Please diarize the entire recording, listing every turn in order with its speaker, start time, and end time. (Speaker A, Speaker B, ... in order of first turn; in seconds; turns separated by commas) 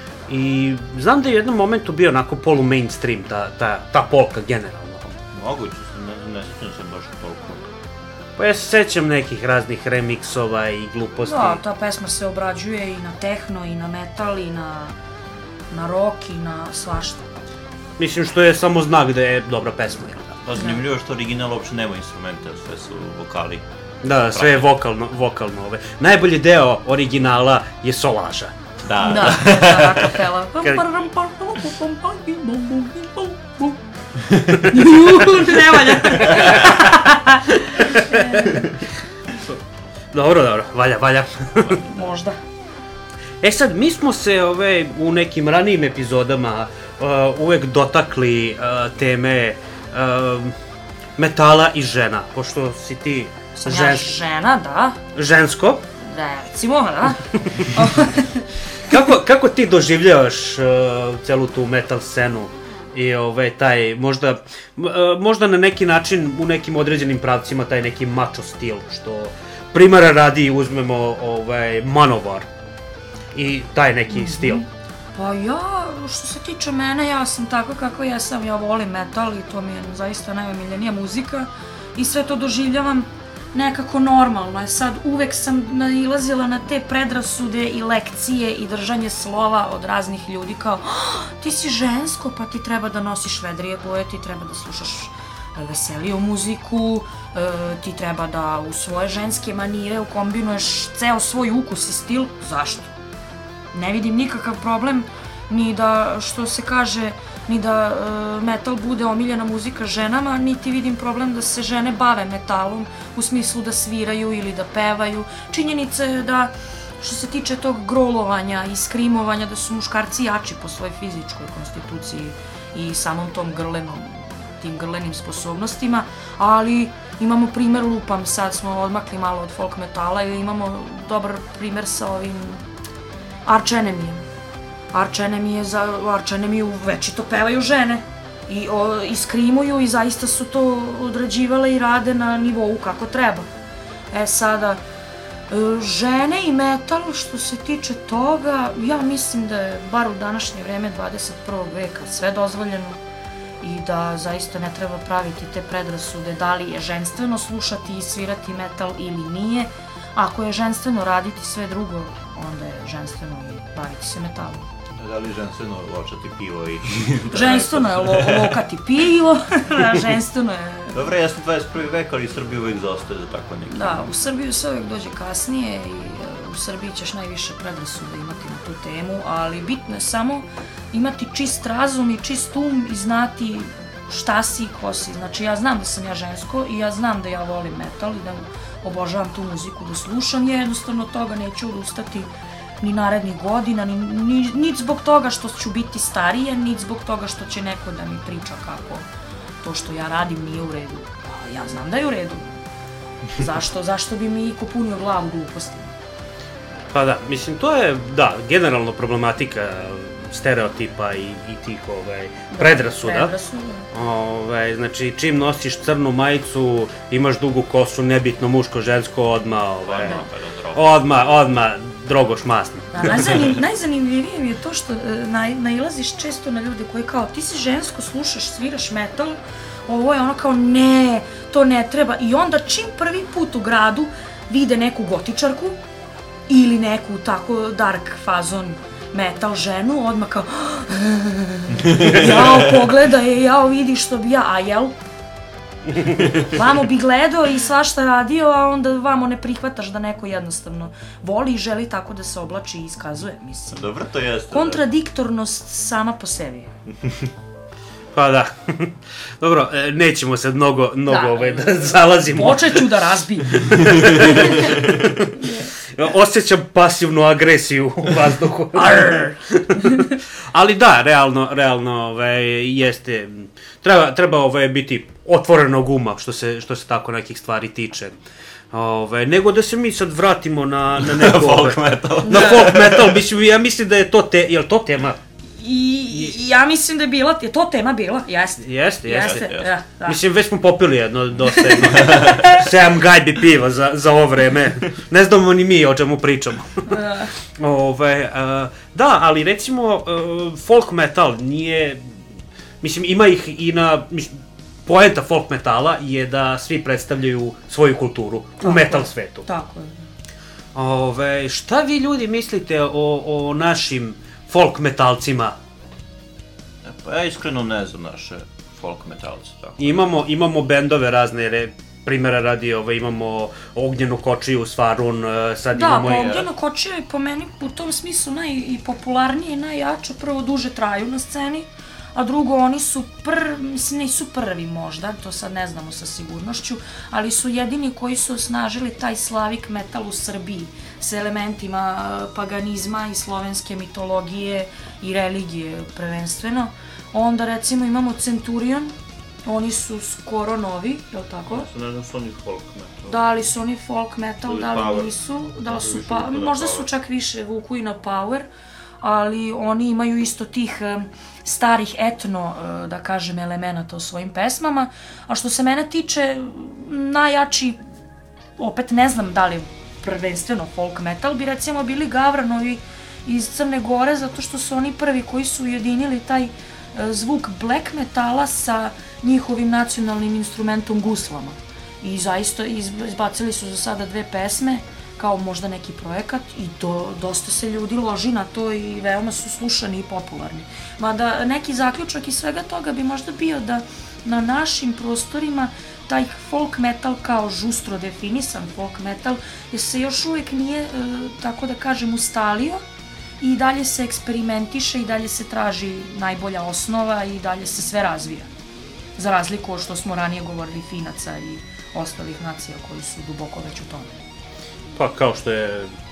Speaker A: 0.3-5.2, Speaker B: 5.3-7.7, Speaker A: 8.4-11.6, Speaker C: 11.2-14.9, Speaker C: 15.7-17.3, Speaker A: 18.0-20.4, Speaker B: 20.4-23.6, Speaker C: 20.6-20.8, Speaker A: 24.0-28.5, Speaker B: 24.3-24.7, Speaker B: 28.8-30.2, Speaker C: 29.0-33.8, Speaker C: 34.7-38.6, Speaker A: 36.2-36.8, Speaker B: 36.3-36.8, Speaker A: 37.8-38.7, Speaker A: 40.1-41.6, Speaker B: 41.5-42.1, Speaker C: 41.9-42.4, Speaker A: 43.4-50.5, Speaker A: 51.2-54.1, Speaker C: 53.6-55.0, Speaker A: 55.1-55.8, Speaker C: 56.0-58.5, Speaker A: 58.9-72.5, Speaker A: 73.3-74.6, Speaker C: 74.1-102.9, Speaker C: 103.7-132.7, Speaker C: 133.4-134.2, Speaker C: 134.9-143.5, Speaker C: 144.1-144.8, Speaker C: 145.5-153.0, Speaker C: 153.6-164.7, Speaker B: 164.9-168.6, Speaker C: 167.3-171.1, Speaker B: 170.9-174.1, Speaker C: 173.7-192.3, Speaker C: 192.8-199.0, Speaker C: 199.6-202.6, Speaker C: 203.4-205.9, Speaker A: 206.9-213.3, Speaker C: 212.5-213.9, Speaker A: 213.9-220.2, Speaker B: 219.8-221.4, Speaker A: 220.7-223.1, Speaker C: 222.9-235.8, Speaker B: 223.0-223.4, Speaker C: 236.5-244.9, Speaker B: 241.8-242.9, Speaker C: 246.3-253.9, Speaker B: 253.7-254.8, Speaker C: 254.5-256.7, Speaker A: 258.1-262.8, Speaker C: 261.1-264.7, Speaker A: 263.7-265.3, Speaker C: 265.4-265.7, Speaker A: 265.9-278.1, Speaker C: 268.7-270.0, Speaker A: 278.7-285.2, Speaker B: 281.0-283.2, Speaker C: 282.2-282.7, Speaker C: 285.5-290.2, Speaker A: 288.6-289.5, Speaker B: 289.2-289.7, Speaker A: 290.0-297.0, Speaker C: 291.7-292.4, Speaker B: 291.9-292.4, Speaker C: 296.9-297.3, Speaker A: 297.6-302.1, Speaker A: 302.8-309.5, Speaker C: 308.6-310.1, Speaker A: 310.7-315.6, Speaker B: 316.8-320.2, Speaker A: 319.8-326.4, Speaker C: 325.7-348.9, Speaker C: 349.4-351.7, Speaker B: 351.5-353.3, Speaker C: 353.1-358.5, Speaker B: 354.4-356.9, Speaker C: 359.0-367.8, Speaker C: 368.6-402.8, Speaker C: 403.4-408.5, Speaker C: 409.2-414.2, Speaker A: 414.9-415.9